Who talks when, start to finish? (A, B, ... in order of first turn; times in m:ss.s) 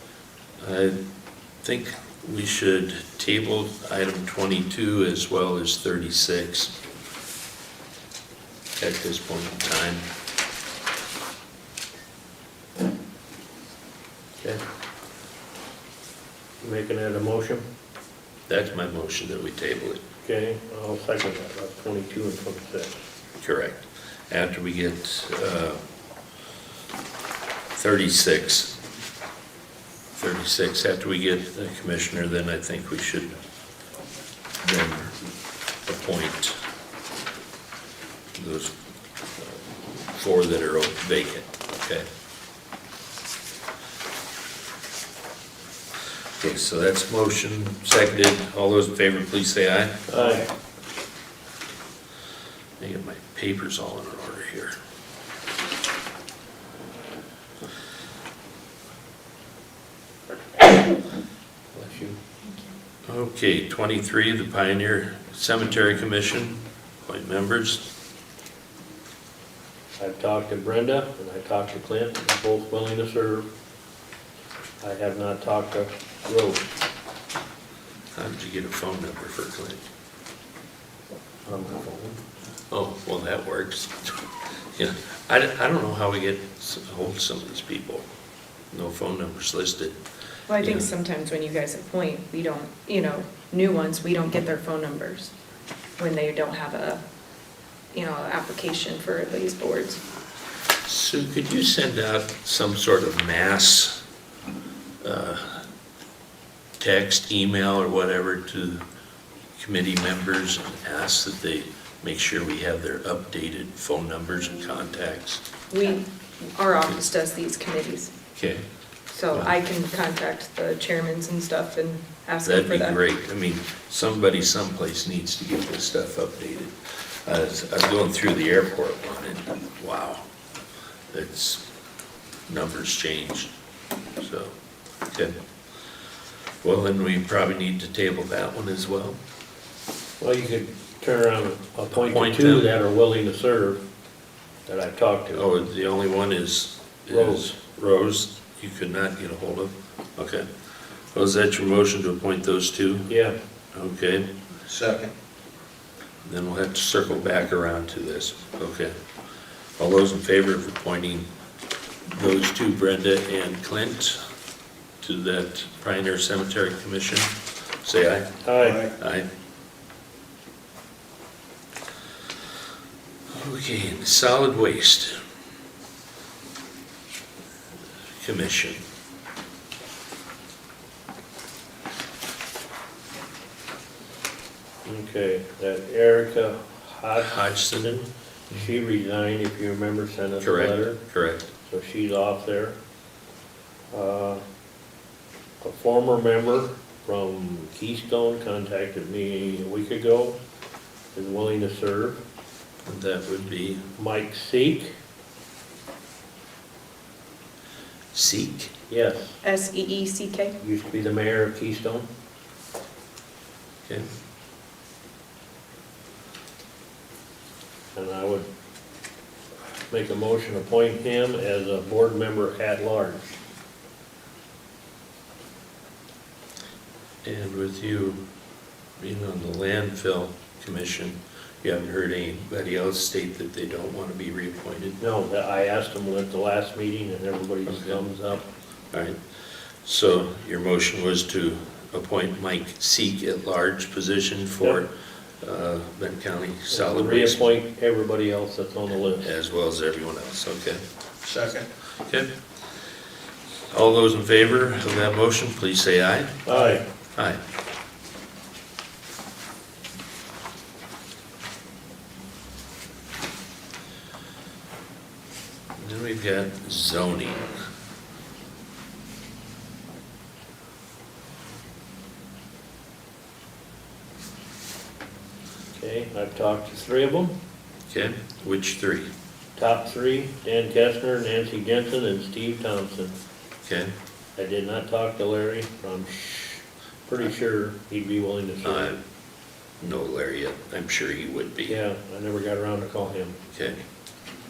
0:00.6-0:01.0 A
0:01.6-0:06.8 A
0:08.8-0:10.1 A
0:16.6-0:17.6 B
0:18.5-0:20.0 A
0:20.2-0:22.9 B
0:23.4-0:25.8 A
0:27.7-0:28.8 A
0:30.1-0:33.4 A
0:34.6-0:35.2 A
0:35.9-0:36.6 A
0:38.4-0:38.7 A
0:39.4-0:42.1 A
0:46.4-0:50.1 A
0:50.1-0:50.4 B
0:50.2-0:50.4 C
0:52.8-0:54.8 A
1:01.7-1:02.2 B
1:03.1-1:07.8 A
1:10.0-1:13.5 B
1:14.8-1:16.7 B
1:18.1-1:19.8 A
1:21.5-1:22.2 B
1:22.7-1:24.2 A
1:24.8-1:28.1 A
1:28.7-1:30.0 A
1:30.5-1:35.3 D
1:30.6-1:30.9 A
1:36.0-1:37.0 D
1:37.9-1:40.0 D
1:40.8-1:44.0 A
1:45.0-1:45.7 A
1:46.8-1:48.8 A
1:49.6-1:55.4 A
1:55.7-1:58.1 D
1:58.4-1:58.6 A
1:59.1-2:03.0 D
2:02.4-2:10.2 A
2:11.1-2:11.6 A
2:12.5-2:13.5 A
2:14.2-2:14.6 A
2:16.6-2:19.2 A
2:20.2-2:23.8 B
2:21.9-2:22.7 A
2:24.7-2:25.5 B
2:25.3-2:30.5 A
2:27.1-2:27.5 B
2:31.1-2:33.1 A
2:33.1-2:33.4 B
2:33.7-2:34.3 A
2:34.7-2:35.1 C
2:36.2-2:38.9 A
2:39.8-2:41.3 A
2:42.1-2:44.2 A
2:45.0-2:49.3 A
2:48.4-2:48.9 B
2:48.6-2:48.9 C
2:53.4-2:55.2 A
2:58.2-2:58.8 A
3:04.8-3:11.0 B
3:07.2-3:07.9 A
3:10.4-3:11.5 A
3:11.6-3:12.8 B
3:13.9-3:14.4 B
3:15.6-3:20.4 B
3:21.1-3:22.2 B
3:22.9-3:23.9 A
3:24.0-3:24.9 B
3:28.1-3:28.7 A
3:28.9-3:29.4 B
3:29.4-3:30.6 D
3:30.6-3:32.1 B
3:37.9-3:38.5 B
3:39.9-3:43.4 B
3:47.2-3:48.2 A
3:49.0-3:55.0 A
3:55.0-3:58.5 B
3:57.7-3:58.0 A
3:58.9-3:59.2 A
3:59.8-4:07.6 A
4:06.7-4:09.3 B
4:09.2-4:10.8 A
4:11.2-4:11.7 C
4:12.0-4:12.3 A
4:13.7-4:16.4 A
4:16.5-4:16.8 B
4:16.5-4:16.8 C
4:25.8-4:27.5 A
4:35.7-4:37.4 B
4:37.9-4:39.1 A
4:39.6-4:43.2 B
4:43.6-4:43.9 A
4:44.4-4:48.9 B
4:48.6-4:49.0 A
4:49.8-4:51.8 A
4:51.7-4:53.4 B
4:53.5-4:53.9 A